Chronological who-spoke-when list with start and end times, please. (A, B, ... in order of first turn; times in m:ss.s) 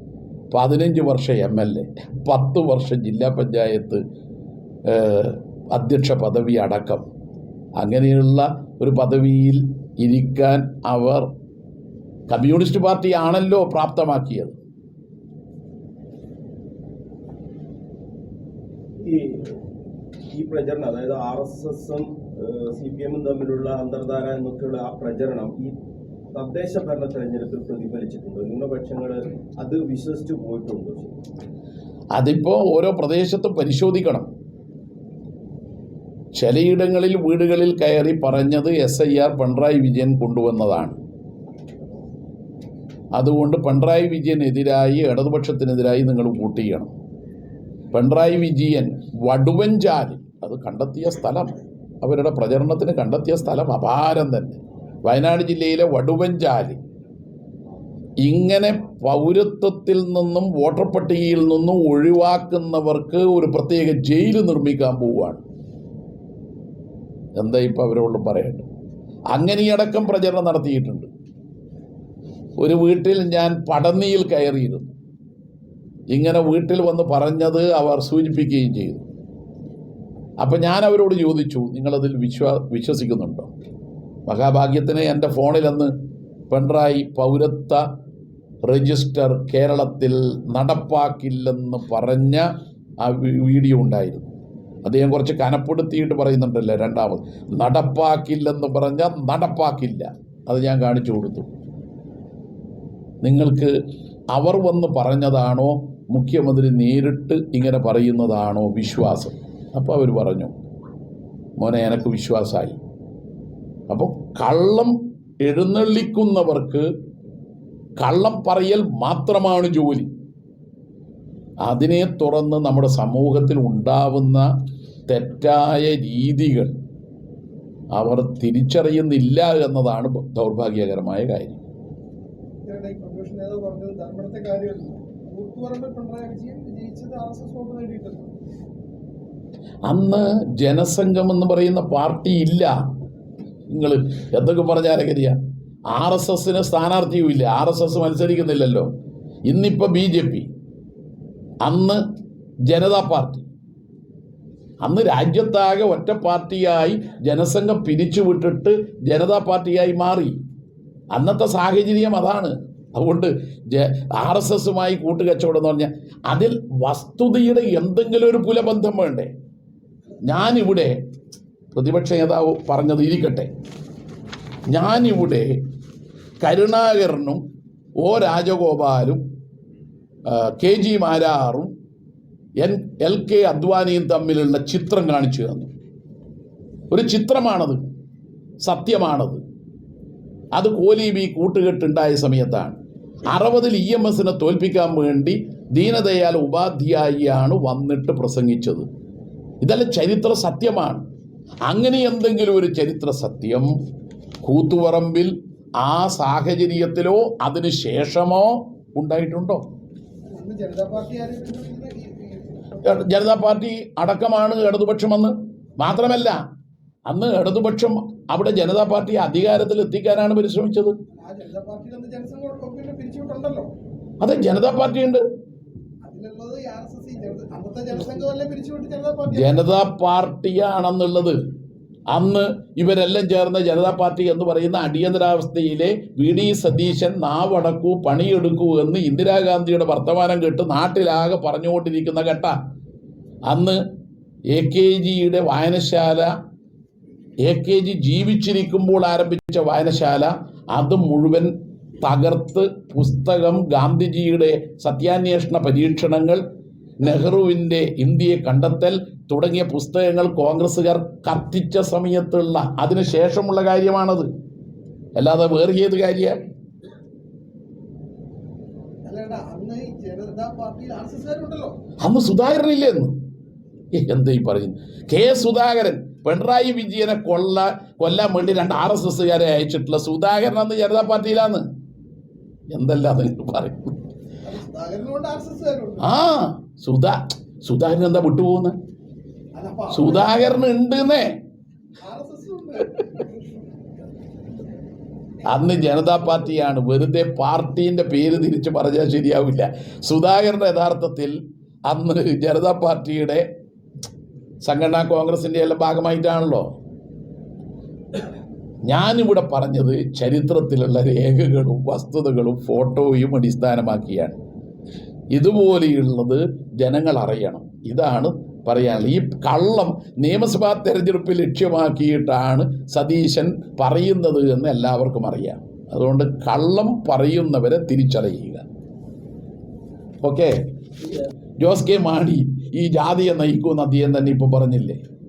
0:00.5-0:04.0 A
0:04.8-0:07.0 A
0:07.8-0:11.3 A
0:12.3-0:14.6 A
0:19.0-0:19.6 B
0:20.3-0:25.7 B
0:26.3-0:31.2 B
0:32.2-0:34.3 A
0:36.3-0:41.0 A
0:43.2-0:46.9 A
0:47.9-0:56.8 A
0:58.2-1:05.4 A
1:07.4-1:08.7 A
1:09.3-1:11.1 A
1:12.6-1:14.9 A
1:16.1-1:19.0 A
1:20.4-1:23.5 A
1:24.3-1:25.9 A
1:26.5-1:27.8 A
1:28.7-1:32.5 A
1:33.0-1:34.3 A
1:34.8-1:41.5 A
1:43.2-1:43.7 A
1:44.3-1:50.5 A
1:51.6-1:52.8 A
1:53.9-1:56.9 A
1:58.0-2:00.1 A
2:01.6-2:04.5 A
2:05.1-2:06.7 A
2:07.9-2:11.6 A
2:12.7-2:18.3 C
2:19.9-2:22.7 A
2:23.7-2:25.4 A
2:25.9-2:28.9 A
2:29.5-2:30.5 A
2:31.6-2:32.0 A
2:32.7-2:33.5 A
2:34.8-2:40.4 A
2:41.1-2:49.3 A
2:50.2-2:51.0 A
2:51.7-2:53.5 A
2:54.7-2:55.6 A
2:56.4-2:57.4 A
2:58.0-2:59.2 A
3:00.2-3:01.7 A
3:02.6-3:05.7 A
3:06.9-3:07.8 A
3:08.6-3:09.4 A
3:10.5-3:18.9 A
3:19.6-3:21.0 A
3:21.7-3:23.7 A
3:24.4-3:29.6 A
3:30.3-3:32.8 C
3:32.8-3:36.4 A
3:37.1-3:41.0 A
3:41.2-3:43.7 C
3:44.2-3:45.2 A
3:46.0-3:49.6 C
3:49.3-3:51.4 A
3:52.1-4:02.5 A
4:03.5-4:03.8 A
4:04.5-4:06.3 A
4:07.4-4:16.4 A
4:17.0-4:24.3 A
4:25.2-4:26.4 A
4:29.0-4:31.8 C
4:32.0-4:33.2 A
4:33.9-4:41.6 A
4:42.7-4:43.9 A
4:44.4-4:46.1 C
4:46.0-4:48.8 A
4:49.6-4:50.5 C
4:49.9-4:51.4 A
4:52.0-4:53.7 C
4:55.4-5:03.5 A
5:04.6-5:06.7 A
5:08.9-5:14.4 A
5:15.3-5:28.6 A
5:30.2-5:30.6 A
5:31.6-5:35.0 A